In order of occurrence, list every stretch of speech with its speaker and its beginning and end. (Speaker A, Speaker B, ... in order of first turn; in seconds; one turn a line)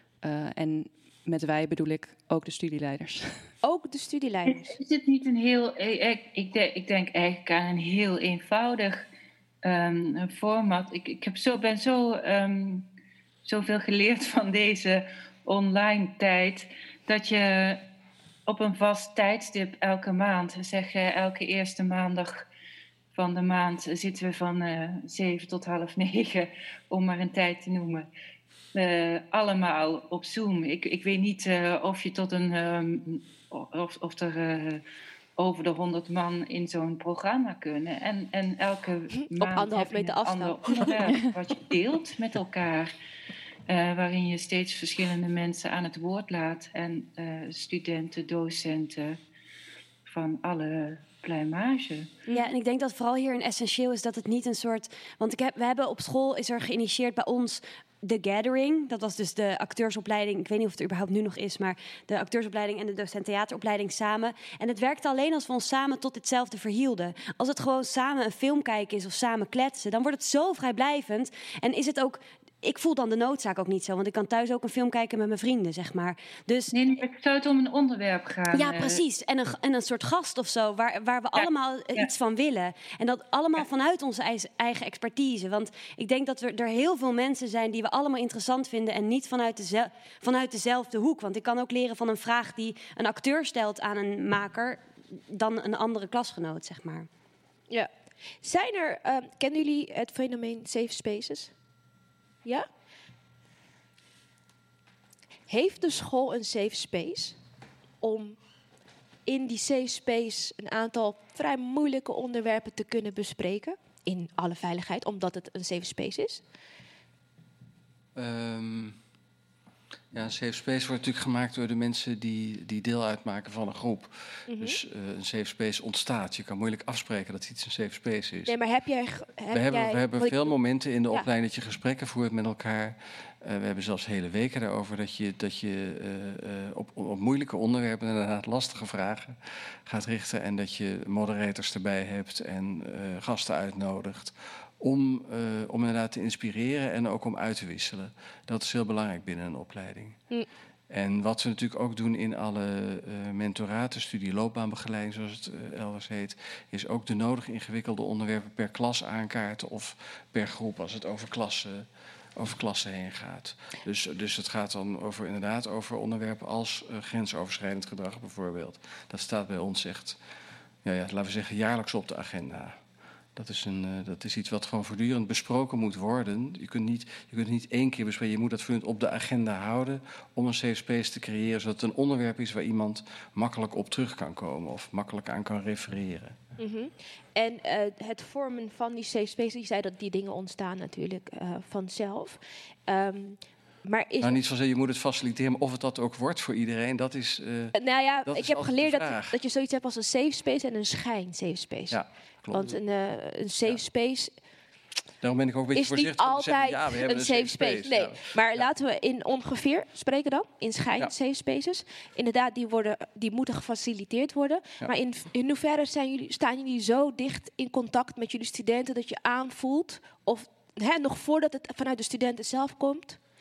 Speaker A: 0.2-3.5
Speaker B: 3.6-4.8
Speaker C: 4.5-9.1
Speaker C: 9.6-12.8
Speaker C: 13.4-17.8
Speaker C: 18.5-22.4
Speaker C: 23.1-28.1
Speaker C: 28.7-34.8
Speaker C: 35.4-42.9
Speaker B: 39.1-41.2
Speaker C: 43.7-49.2
Speaker C: 50.1-52.1
Speaker D: 52.3-76.8
Speaker C: 76.7-79.0
Speaker D: 78.5-97.1
Speaker C: 81.3-82.1
Speaker B: 98.4-101.5
Speaker B: 105.5-107.4
Speaker B: 108.0-108.4
Speaker B: 109.2-116.4
Speaker E: 118.1-119.0
Speaker E: 120.1-128.5
Speaker B: 124.5-124.8
Speaker B: 128.5-130.6
Speaker E: 129.5-150.2
Speaker E: 150.9-170.2
Speaker E: 170.8-172.8
Speaker E: 173.3-186.3
Speaker B: 186.6-194.4
Speaker E: 194.2-199.4
Speaker B: 197.7-202.0
Speaker E: 201.9-202.8
Speaker B: 202.5-204.3
Speaker E: 205.2-208.7
Speaker B: 205.7-223.2